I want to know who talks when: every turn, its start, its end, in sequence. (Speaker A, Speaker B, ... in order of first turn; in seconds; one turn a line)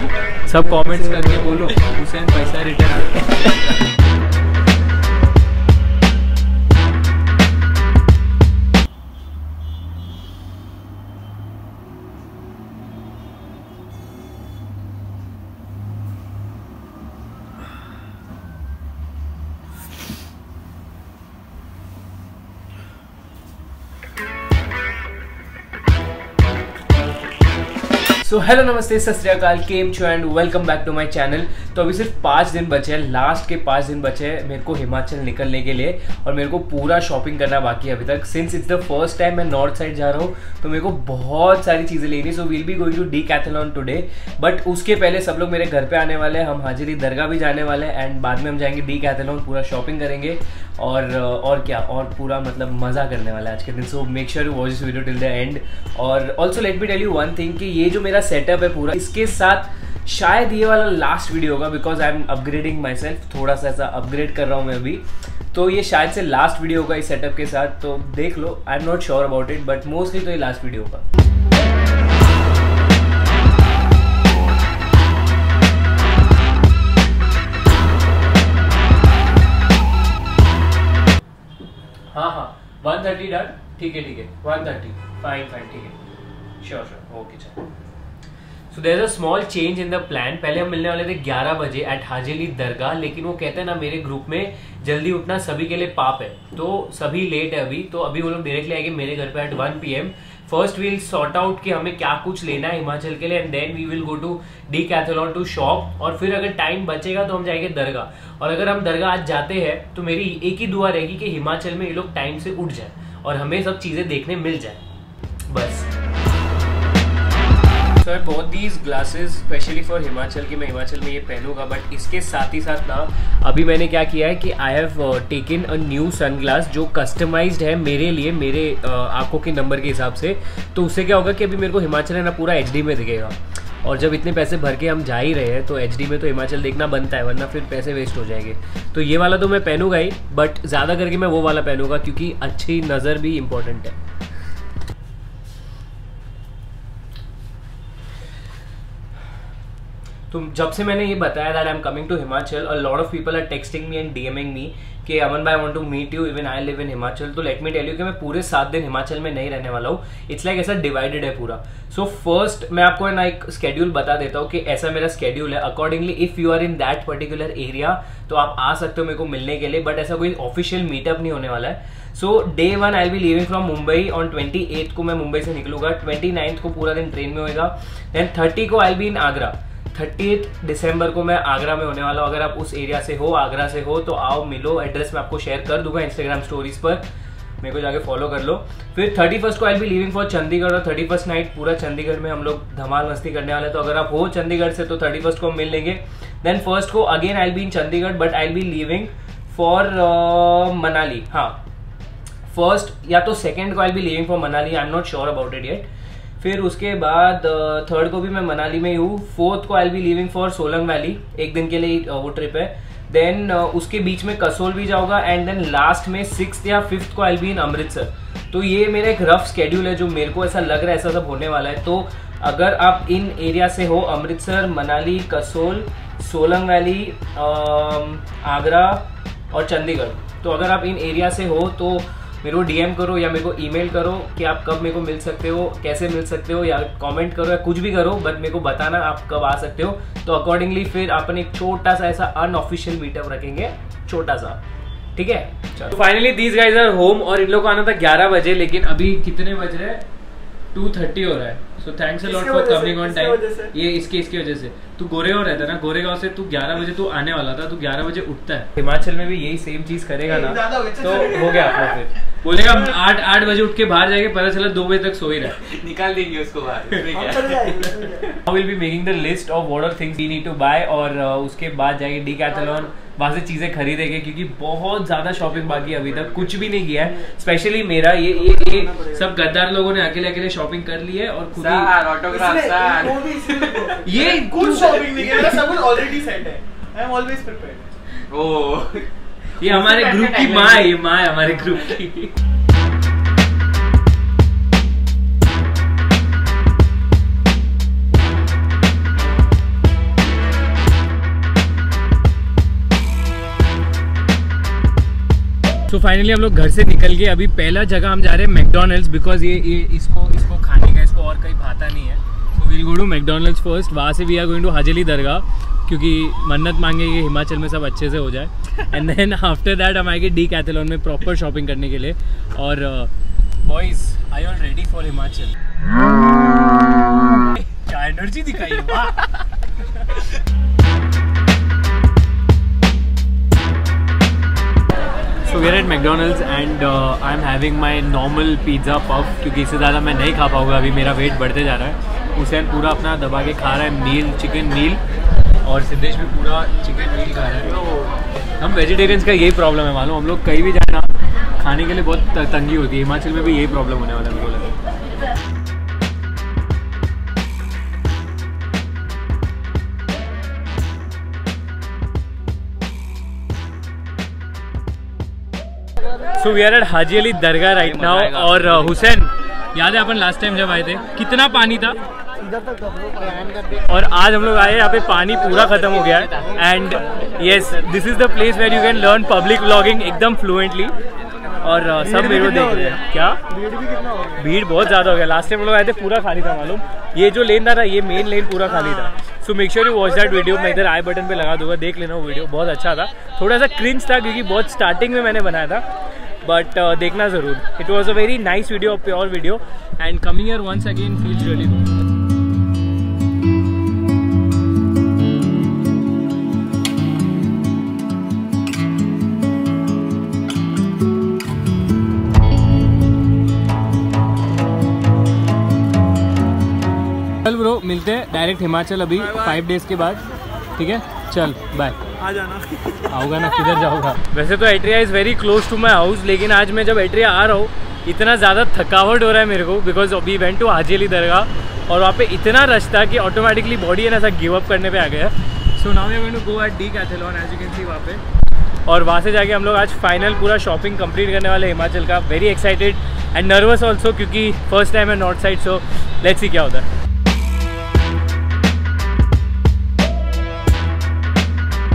Speaker A: 0.5-3.8
Speaker A: 28.2-71.0
Speaker A: 82.1-86.0
Speaker A: 86.6-87.6
Speaker A: 88.7-114.8
Speaker A: 115.5-115.9
Speaker A: 118.0-144.0
Speaker A: 150.3-187.0
Speaker A: 187.6-201.6
Speaker A: 202.5-205.9
Speaker A: 206.4-244.6
Speaker A: 245.1-250.0
Speaker A: 250.7-265.7
Speaker B: 252.2-253.7
Speaker B: 260.2-261.8
Speaker B: 262.7-262.9
Speaker C: 265.6-267.8
Speaker B: 267.1-268.3
Speaker A: 268.2-281.9
Speaker B: 278.5-279.1
Speaker C: 281.5-283.9
Speaker B: 282.2-288.0
Speaker A: 284.0-285.8
Speaker C: 288.3-289.1
Speaker A: 289.5-292.4
Speaker C: 289.6-290.9
Speaker A: 305.9-325.6
Speaker A: 327.3-330.2
Speaker A: 335.4-345.0
Speaker A: 345.6-347.8
Speaker A: 348.6-354.8
Speaker A: 366.3-372.0
Speaker C: 367.9-368.7
Speaker B: 372.5-373.5
Speaker A: 373.7-380.9
Speaker A: 381.6-383.4
Speaker B: 383.7-384.2
Speaker A: 384.3-395.9
Speaker A: 396.4-401.9
Speaker A: 417.4-420.2
Speaker A: 420.8-422.0
Speaker B: 422.2-423.2
Speaker A: 423.1-438.2
Speaker A: 438.9-446.9